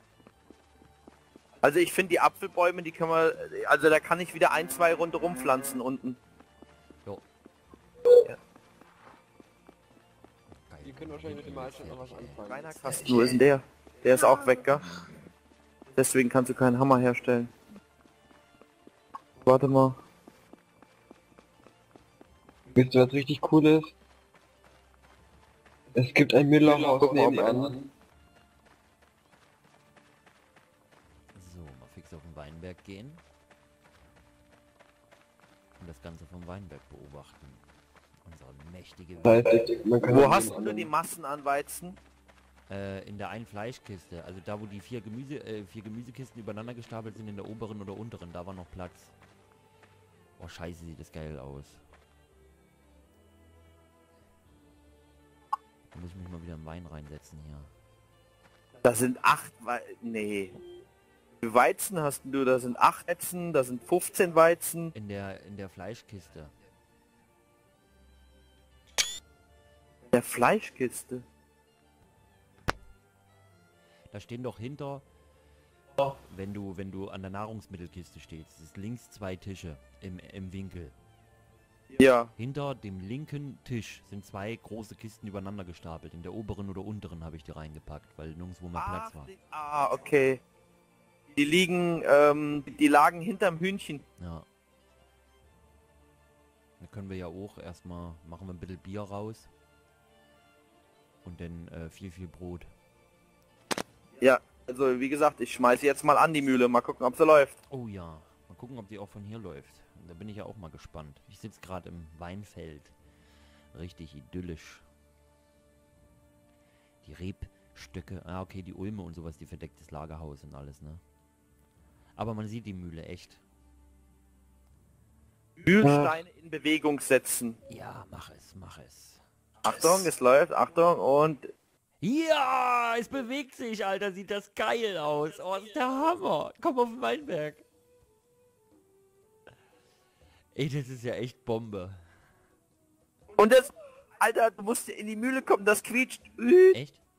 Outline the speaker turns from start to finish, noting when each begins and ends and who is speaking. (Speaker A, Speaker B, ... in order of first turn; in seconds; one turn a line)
Speaker A: 1.6-6.2
Speaker B: 10.5-13.4
Speaker C: 10.8-13.1
Speaker A: 12.4-14.8
Speaker A: 15.9-17.5
Speaker A: 19.4-20.0
Speaker C: 22.7-23.9
Speaker C: 25.9-27.8
Speaker A: 26.6-27.7
Speaker B: 31.3-33.2
Speaker B: 35.8-37.6
Speaker B: 38.2-39.5
Speaker C: 39.2-40.9
Speaker A: 40.0-42.0
Speaker B: 42.7-49.1
Speaker B: 50.4-51.8
Speaker B: 55.9-57.7
Speaker A: 58.8-60.6
Speaker A: 61.4-64.9
Speaker B: 64.9-66.5
Speaker A: 70.1-71.2
Speaker B: 74.1-75.0
Speaker B: 76.1-80.9
Speaker A: 81.9-82.3
Speaker B: 82.4-89.3
Speaker A: 88.7-90.4
Speaker A: 91.3-94.0
Speaker B: 94.2-94.5
Speaker B: 96.8-99.5
Speaker B: 101.2-102.7
Speaker A: 104.2-107.5
Speaker B: 107.7-113.0
Speaker B: 113.7-114.8
Speaker B: 117.0-121.0
Speaker B: 122.2-123.4
Speaker A: 125.6-127.6
Speaker C: 125.8-126.2
Speaker B: 127.7-129.2
Speaker A: 129.6-131.5
Speaker B: 132.0-137.6
Speaker B: 140.5-142.0
Speaker A: 143.4-146.8
Speaker B: 146.7-147.0